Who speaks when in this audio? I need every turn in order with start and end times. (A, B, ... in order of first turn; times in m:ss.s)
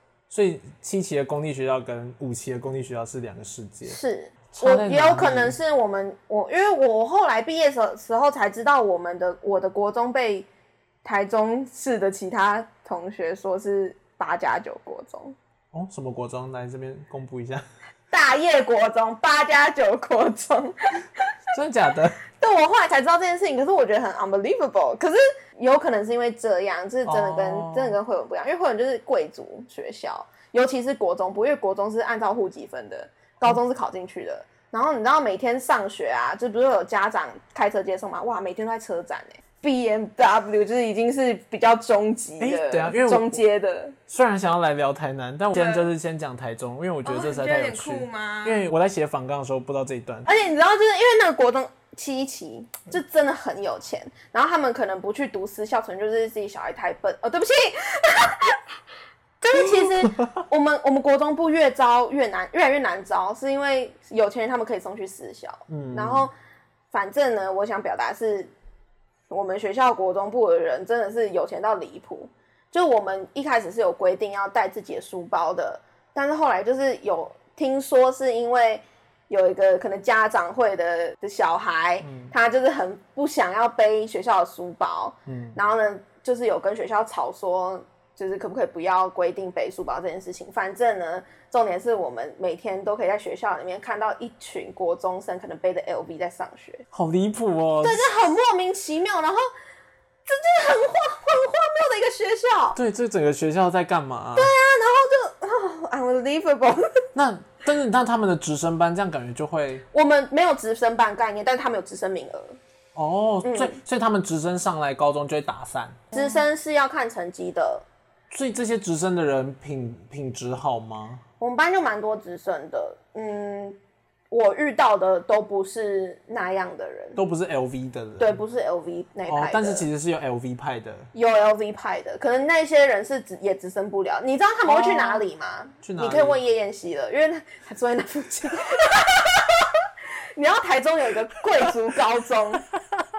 0:00.3-0:04.0 A
0:03.9-0:10.5 B
0:04.5-0:05.6 A
0:11.0-0:15.4 B
0:15.7-0:17.6 A
0:18.1-0:21.2 B
0:21.5-0:22.2 A
0:22.4-0:44.0 B
0:27.1-0:28.0 A
0:42.4-0:43.4 A
0:44.1-0:50.3 A
0:45.5-0:45.9 B
0:47.0-0:48.6 B
0:50.3-0:58.6 B
0:59.4-1:06.3 B
1:05.7-1:06.3 A
1:06.9-1:08.5 B
1:09.3-1:36.8 B
1:22.0-1:22.4 A
1:25.3-1:25.6 A
1:36.9-1:38.1 A
1:37.8-1:39.5 B
1:40.3-1:42.8 B
1:42.8-1:44.5 A
1:44.4-1:46.9 B
1:47.1-1:49.8 A
1:49.9-1:52.6 B
1:53.0-1:56.2 A
1:53.4-1:53.8 B
1:56.1-1:57.8 B
1:58.3-2:01.2 A
2:01.4-2:03.8 B
2:04.3-2:07.2 B
2:07.2-2:08.4 A
2:08.2-2:09.9 B
2:09.3-2:11.1 A
2:11.1-2:19.8 B
2:14.7-2:15.3 A
2:15.8-2:16.4 A
2:20.4-2:22.6 B